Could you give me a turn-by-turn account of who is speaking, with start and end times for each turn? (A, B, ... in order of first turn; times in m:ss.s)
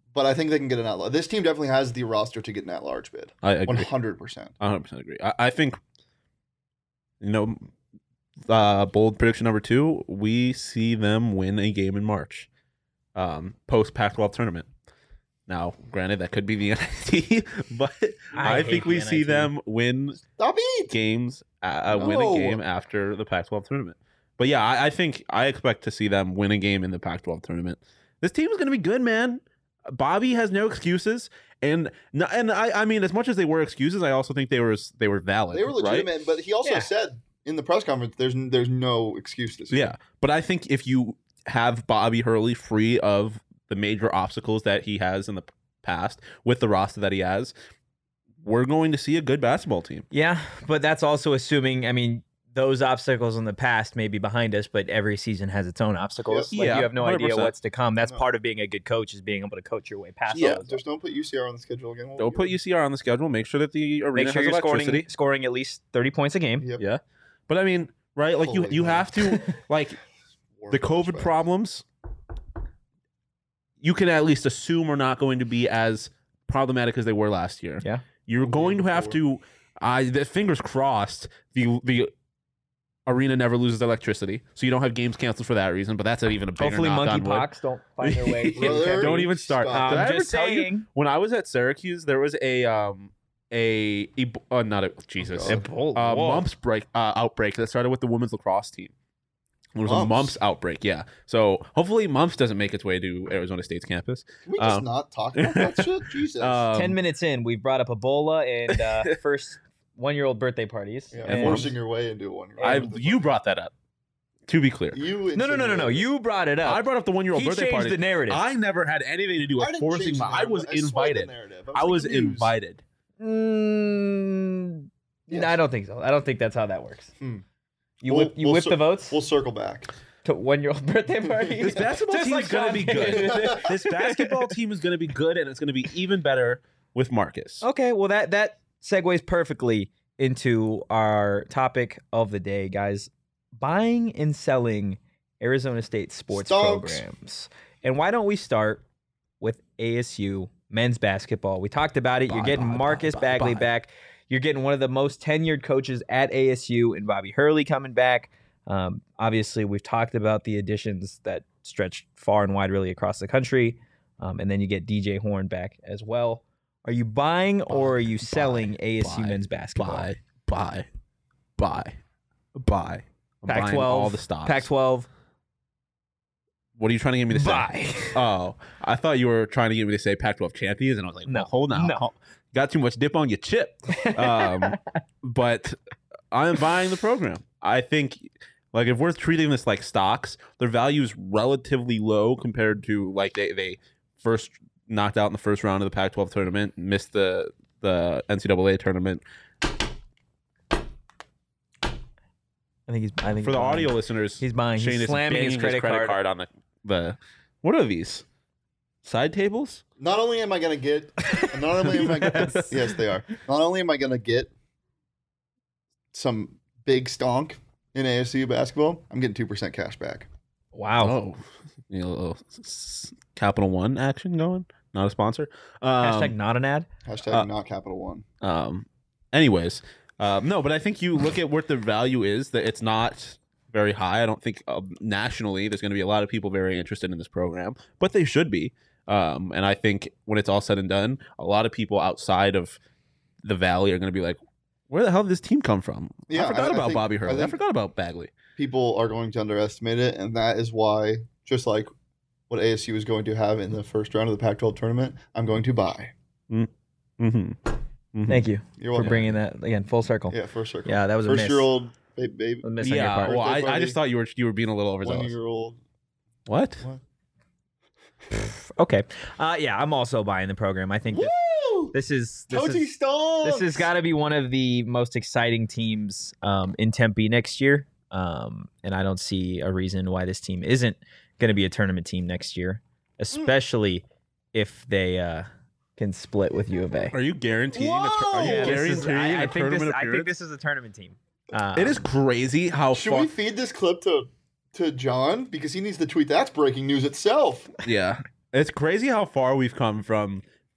0:00.1-0:04.5 A
0:03.4-0:03.9 B
0:04.6-0:05.8 B
0:07.2-0:07.7 B
0:08.5-0:12.5 B
0:13.1-0:14.7 B
0:15.5-0:20.2 B
0:18.3-0:19.5 C
0:20.4-0:20.9 A
0:20.9-0:36.1 B
0:21.9-0:22.6 A
0:35.5-0:39.9 A
0:39.7-0:47.5 B
0:48.4-0:50.0 B
0:50.1-1:00.8 C
0:56.3-0:56.5 A
0:56.5-0:57.5 B
1:00.3-1:00.6 B
1:00.6-1:02.5 A
1:02.2-1:05.1 B
1:04.1-1:06.6 C
1:06.6-1:06.8 A
1:06.8-1:10.0 B
1:08.4-1:09.3 A
1:10.6-1:11.3 A
1:10.7-1:11.8 B
1:13.8-1:22.1 B
1:18.4-1:19.2 A
1:23.0-1:27.5 B
1:26.6-1:30.8 C
1:28.0-1:38.9 B
1:28.5-1:30.1 A
1:35.2-1:35.6 A
1:35.4-1:36.4 C
1:39.7-1:47.0 B
1:39.8-1:40.4 A
1:44.4-1:46.6 A
1:46.7-1:51.7 C
1:48.7-1:49.1 B
1:51.1-1:53.2 A
1:51.3-1:51.7 B
1:52.6-1:52.9 C
1:52.6-1:53.7 B
1:54.5-1:55.0 B
1:54.9-1:56.1 A
1:55.3-1:58.4 C
1:56.6-2:02.8 B
1:59.6-2:02.5 A
2:03.2-2:07.1 C
2:05.3-2:05.6 A
2:08.0-2:09.2 C
2:08.1-2:09.9 A
2:10.2-2:14.5 C
2:11.2-2:11.8 A
2:11.6-2:17.6 B
2:13.1-2:13.6 A
2:17.6-2:28.8 C
2:26.3-2:27.0 A
2:29.4-2:50.1 C
2:32.3-2:33.7 B
2:47.7-2:50.8 B
2:51.6-2:52.0 B
2:52.6-2:54.7 B
2:53.5-2:55.1 C
2:56.8-3:05.8 B
2:57.3-2:58.2 C
3:01.3-3:02.0 C
3:03.9-3:04.8 C
3:06.3-3:19.2 B
3:22.9-3:26.2 C
3:23.4-3:28.2 B
3:29.0-3:29.8 B
3:30.0-3:34.5 A
3:31.2-3:32.7 C
3:32.1-3:32.7 B
3:36.1-3:40.3 A
3:40.7-3:41.1 C
3:41.0-3:46.3 B
3:46.0-3:46.9 C
3:47.0-3:48.2 A
3:48.4-4:02.8 B
4:03.4-4:08.3 B
4:06.3-4:07.6 A
4:08.6-4:11.9 A
4:12.5-4:16.1 A
4:16.5-4:19.3 B
4:18.3-4:21.7 C
4:18.8-4:19.2 A
4:20.3-4:24.0 A
4:22.6-4:23.4 C
4:22.8-4:25.3 B
4:25.0-4:25.8 A
4:26.5-4:26.8 B
4:28.3-4:31.3 C
4:31.1-4:31.9 A
4:31.9-4:32.9 C
4:32.5-4:33.9 A
4:33.4-4:47.1 C
4:47.1-4:50.3 B
4:47.7-4:48.8 A
4:48.4-4:52.1 C
4:51.8-4:53.3 B
4:52.9-4:57.7 A
4:57.8-5:00.4 B